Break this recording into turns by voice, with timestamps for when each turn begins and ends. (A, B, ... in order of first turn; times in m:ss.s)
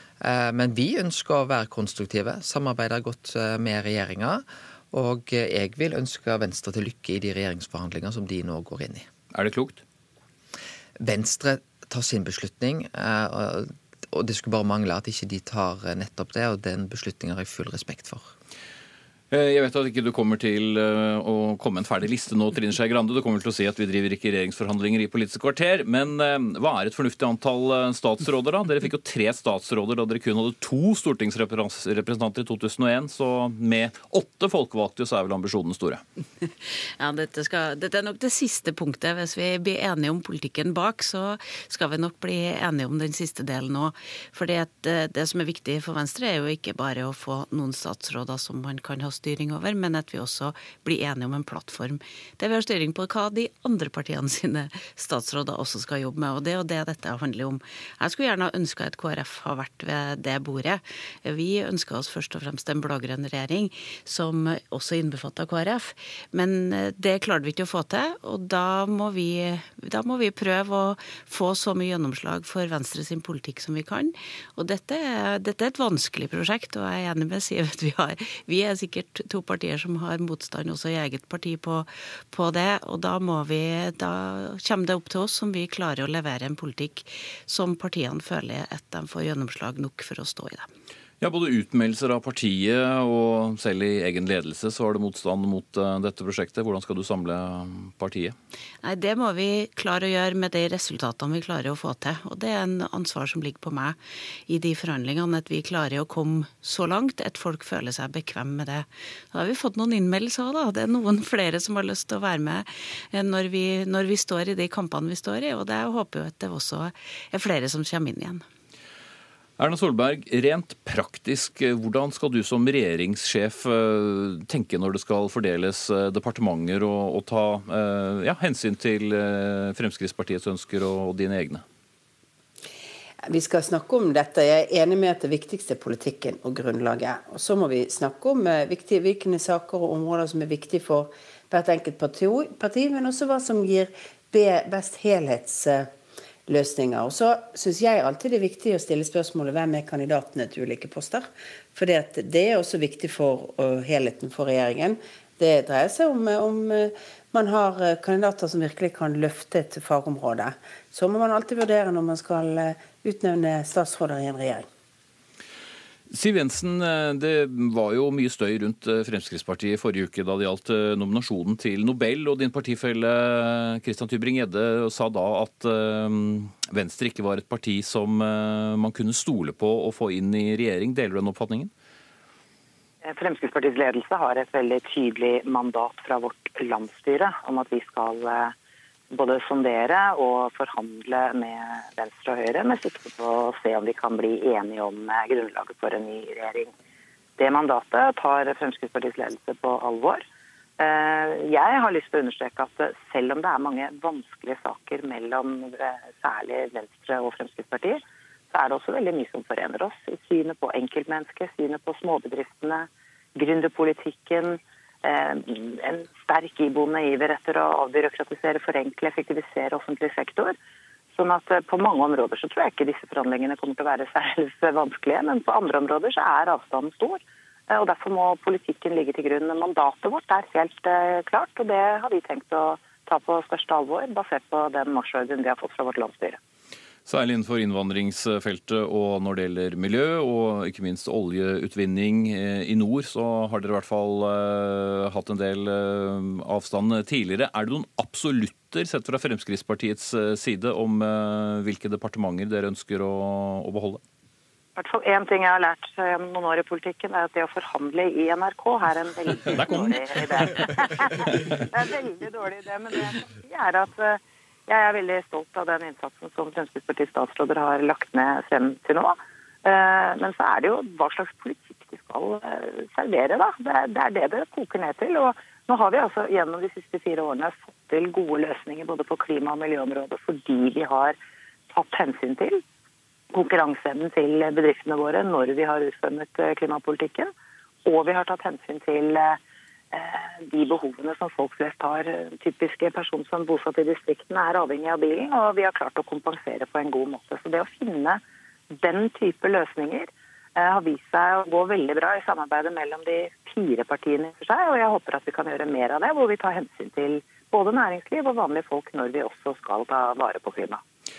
0:00.2-0:09.0 A
0:09.3-0:09.8 B
0:11.0-0:18.3 A
0:19.3-0:36.0 B
0:37.0-1:30.7 C
1:31.2-1:38.4 B
1:38.8-1:58.4 C
1:59.6-2:11.6 B
2:13.2-2:25.9 D
2:26.5-2:44.6 D
2:46.1-3:01.7 B
3:03.0-3:08.5 E
3:09.1-3:16.7 E
3:17.4-3:20.2 E
3:20.8-3:28.0 E
3:28.5-3:40.5 E
3:41.1-3:56.4 E
3:57.0-4:14.0 B
4:14.8-4:41.1 E
4:19.6-4:19.9 B
4:41.7-4:42.6 E
4:43.3-4:47.3 E
4:47.8-4:49.4 E
4:49.9-4:58.2 E
4:58.8-5:10.8 E